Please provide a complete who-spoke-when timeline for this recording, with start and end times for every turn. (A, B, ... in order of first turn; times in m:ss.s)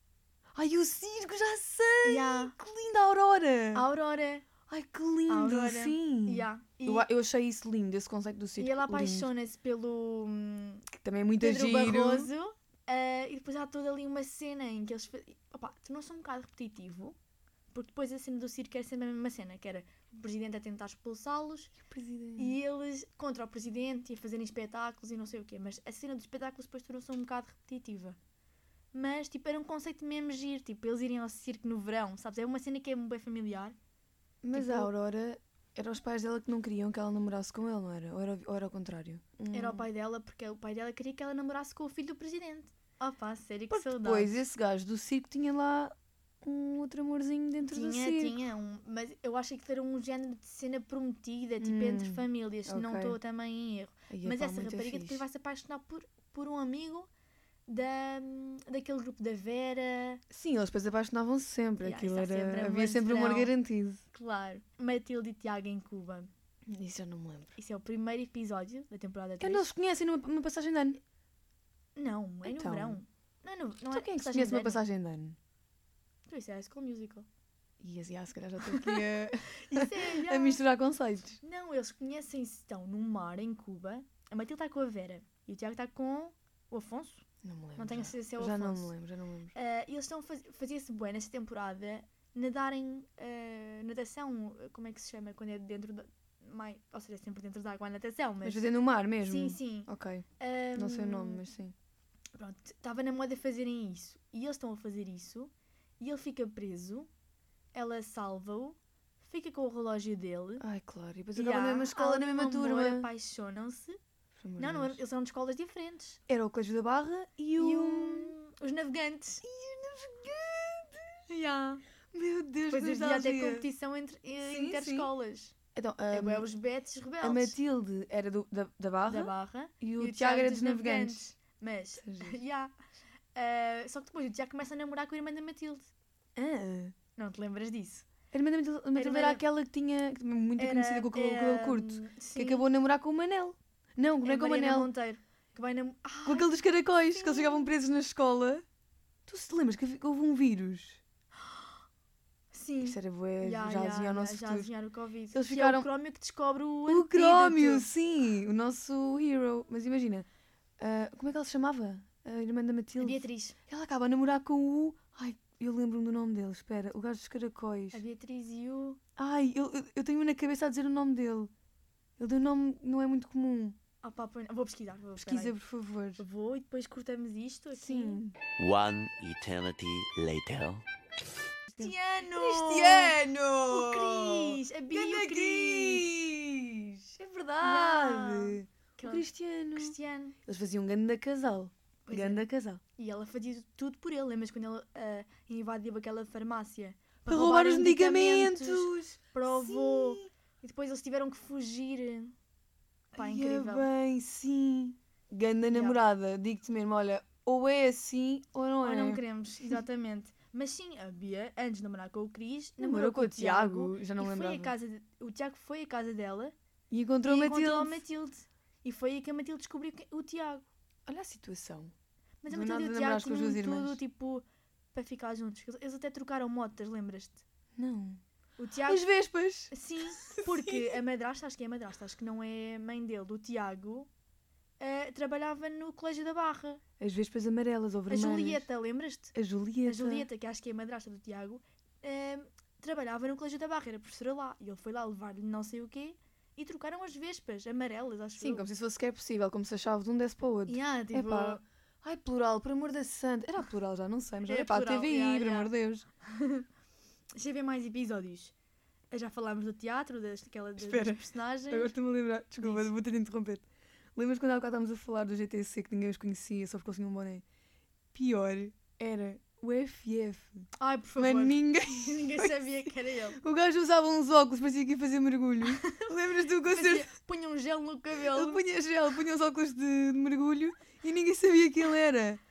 0:00.6-0:03.8 A
0:02.0-0:02.6 B
0:03.7-0:04.5 B
0:04.7-0:09.3 A
0:05.3-0:07.1 B
0:08.6-0:10.9 B
0:11.0-0:12.3 A
0:11.4-0:17.2 B
0:17.7-0:21.7 B
0:21.8-0:22.6 A
0:22.4-0:28.2 B
0:28.9-0:33.8 B
0:34.4-0:39.9 A
0:34.5-0:34.9 B
0:39.5-0:44.4 B
0:43.7-0:48.4 A
0:47.7-0:57.1 B
0:51.6-0:53.2 A
0:54.1-0:55.2 A
0:57.7-1:00.2 B
1:00.3-1:04.0 A
1:01.8-1:03.5 B
1:04.1-1:06.3 B
1:06.7-1:07.6 A
1:07.6-1:09.7 B
1:09.4-1:11.0 A
1:12.0-1:14.8 B
1:12.4-1:13.0 A
1:13.9-1:15.4 A
1:16.3-1:17.3 B
1:17.8-1:21.4 A
1:18.6-1:20.6 B
1:21.4-1:27.2 B
1:27.4-1:29.5 A
1:27.8-1:28.9 B
1:29.5-1:38.6 B
1:38.4-1:41.7 A
1:39.2-1:41.4 B
1:42.4-1:47.1 B
1:47.7-1:50.6 B
1:50.6-1:53.1 A
1:51.4-1:54.0 B
1:54.4-1:55.0 A
1:54.6-1:56.2 B
1:56.3-1:58.4 A
1:57.6-1:59.4 B
1:59.4-2:01.2 A
2:01.3-2:01.8 B
2:02.1-2:03.7 A
2:02.7-2:05.6 B
2:04.4-2:05.1 A
2:05.7-2:06.5 A
2:06.1-2:07.6 B
2:07.2-2:11.3 A
2:09.1-2:12.7 B
2:12.0-2:12.4 A
2:13.3-2:15.9 B
2:16.4-2:17.0 A
2:17.2-2:18.1 B
2:18.3-2:24.9 A
2:19.0-2:19.4 B
2:20.6-2:22.6 B
2:24.2-2:27.7 B
2:26.2-2:28.6 A
2:29.3-2:31.0 A
2:31.4-2:31.8 B
2:32.5-2:37.9 B
2:32.8-2:34.7 A
2:35.3-2:35.9 A
2:36.9-2:40.3 A
2:40.8-2:48.0 A
2:43.0-2:43.6 B
2:47.9-2:49.0 B
2:49.2-2:51.5 A
2:52.2-2:53.8 A
2:54.0-2:55.6 B
2:55.2-2:56.2 A
2:56.2-2:58.2 B
2:57.8-2:58.4 A
2:58.6-3:00.8 C
3:01.7-3:12.8 A
3:01.8-3:06.1 B
3:07.6-3:09.2 B
3:09.8-3:10.4 B
3:12.1-3:22.4 B
3:17.3-3:20.3 A
3:23.1-3:23.9 B
3:23.2-3:29.2 A
3:25.7-3:26.0 B
3:28.8-3:36.6 B
3:32.8-3:34.7 A
3:36.9-3:38.0 A
3:37.2-3:40.7 B
3:41.1-3:41.9 A
3:42.4-3:47.4 B
3:42.5-3:44.0 A
3:47.8-3:48.2 A
3:48.6-3:49.1 B
3:48.8-3:51.0 A
3:49.7-3:54.1 B
3:54.8-3:56.8 B
3:57.0-3:58.7 A
3:58.1-3:59.3 B
3:59.3-4:00.3 A
3:59.8-4:08.6 B
4:08.4-4:16.1 A
4:10.7-4:11.6 B
4:14.5-4:15.7 B
4:16.2-4:16.7 B
4:17.4-4:18.5 B
4:19.1-4:21.9 B
4:20.8-4:23.6 A
4:22.6-4:22.9 B
4:24.2-4:27.4 A
4:28.1-4:37.1 A
4:30.8-4:33.4 B
4:35.6-4:36.1 B
4:36.6-4:38.6 B
4:38.3-4:42.4 A